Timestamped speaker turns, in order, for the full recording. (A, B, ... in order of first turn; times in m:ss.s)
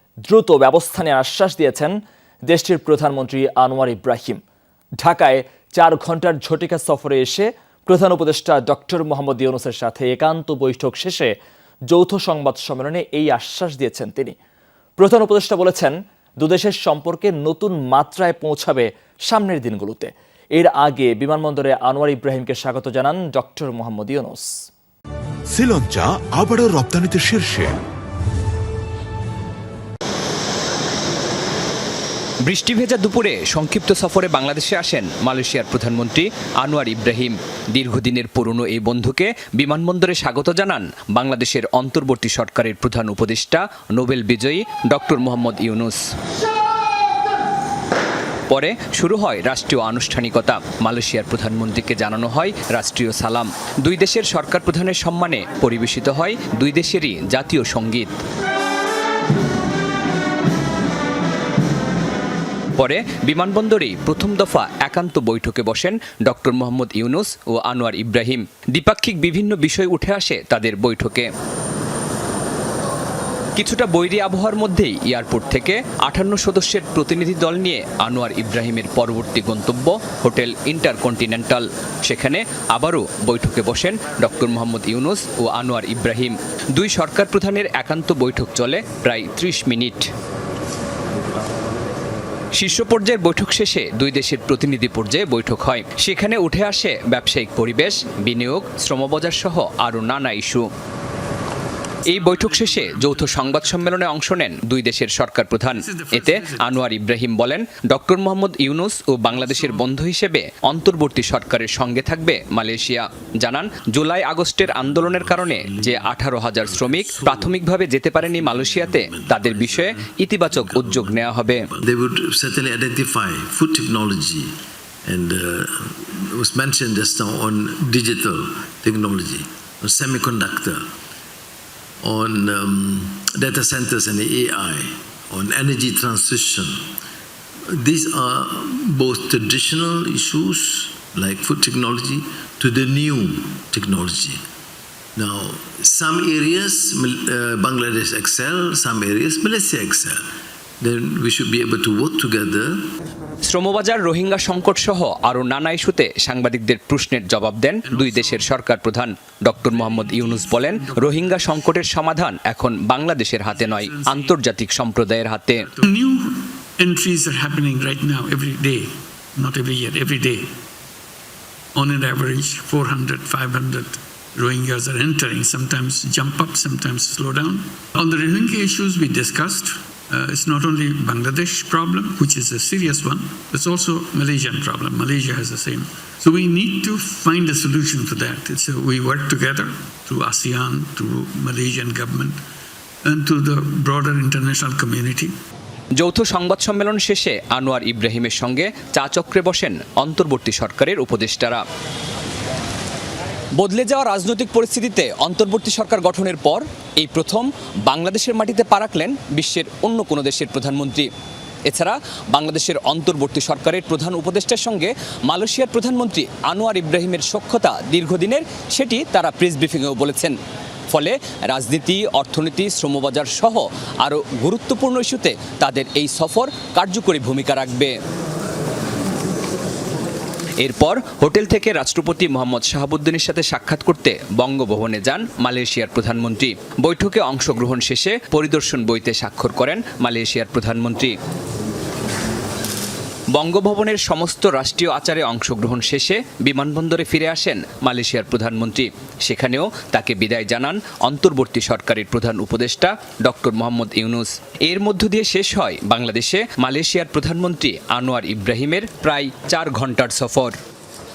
0:00.3-0:01.9 A
0:02.5-0:04.4 A
0:05.0-0:11.3 A
0:11.9-0:14.3 A
0:15.0-0:24.6 A
0:25.6-0:27.8 B
0:32.5-0:46.0 C
0:48.5-0:58.1 C
1:02.8-1:11.3 C
1:13.6-1:30.1 C
1:32.6-1:40.6 C
1:42.1-1:44.1 D
1:42.1-2:01.6 C
1:45.7-1:46.8 D
1:49.3-1:49.9 D
1:54.6-2:04.5 E
2:05.0-2:10.8 E
2:12.0-2:16.8 E
2:17.7-2:24.4 E
2:25.2-2:30.2 E
2:30.8-2:32.9 E
2:33.5-2:45.6 C
2:37.8-2:38.5 D
2:39.6-2:41.8 D
2:43.4-2:44.4 D
2:45.5-2:50.5 D
2:51.7-3:12.4 D
3:13.0-3:15.3 D
3:16.0-3:21.6 C
3:23.6-3:31.1 C
3:31.7-3:40.3 C
3:40.9-3:47.9 C
3:50.6-4:01.1 C
4:03.4-4:20.5 C